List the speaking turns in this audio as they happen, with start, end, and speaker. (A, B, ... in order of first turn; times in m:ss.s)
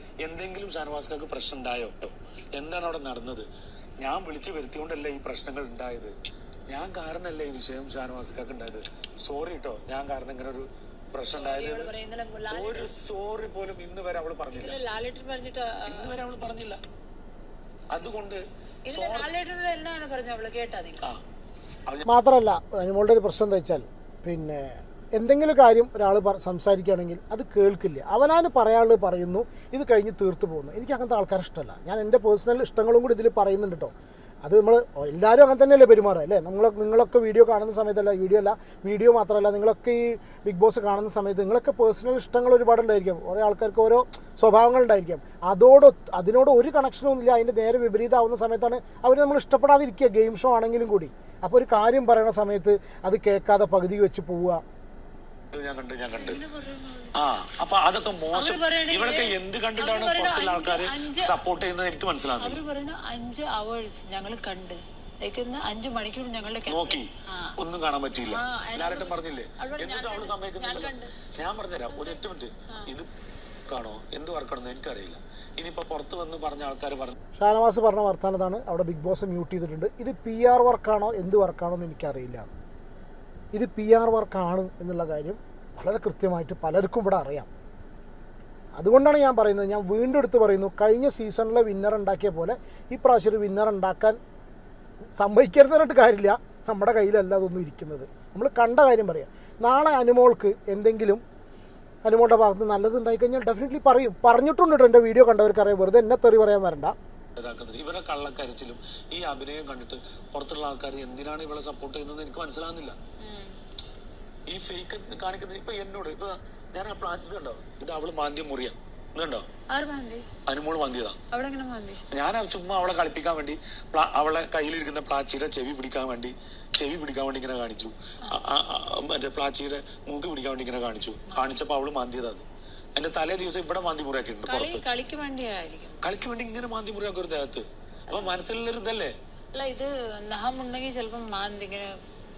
0:00.2-0:03.4 A
0:04.0-0:06.1 A
0:06.7-0:11.9 A
0:11.2-0:12.9 B
0:12.5-0:14.8 A
0:14.5-0:16.2 B
0:15.8-0:16.8 A
0:17.9-0:19.3 A
0:18.9-0:21.0 B
0:22.0-0:33.9 C
0:34.4-0:54.6 C
0:55.5-0:56.4 A
0:56.1-0:57.2 B
0:57.1-1:02.6 A
0:58.3-1:01.4 B
1:02.4-1:07.5 B
1:06.7-1:13.1 A
1:08.2-1:11.1 B
1:11.9-1:12.2 B
1:13.7-1:17.2 A
1:17.4-1:22.5 C
1:23.5-1:27.5 C
1:28.8-1:34.2 C
1:35.2-1:41.2 C
1:42.0-1:47.0 C
1:47.4-1:53.0 A
1:53.2-1:53.5 B
1:54.5-1:59.5 A
1:59.7-2:00.3 B
2:00.5-2:01.2 A
2:01.3-2:02.0 B
2:02.1-2:12.4 A
2:11.3-2:11.6 B
2:13.0-2:14.8 A
2:14.4-2:16.1 B
2:16.0-2:19.1 A
2:18.1-2:18.4 B
2:19.5-2:22.0 B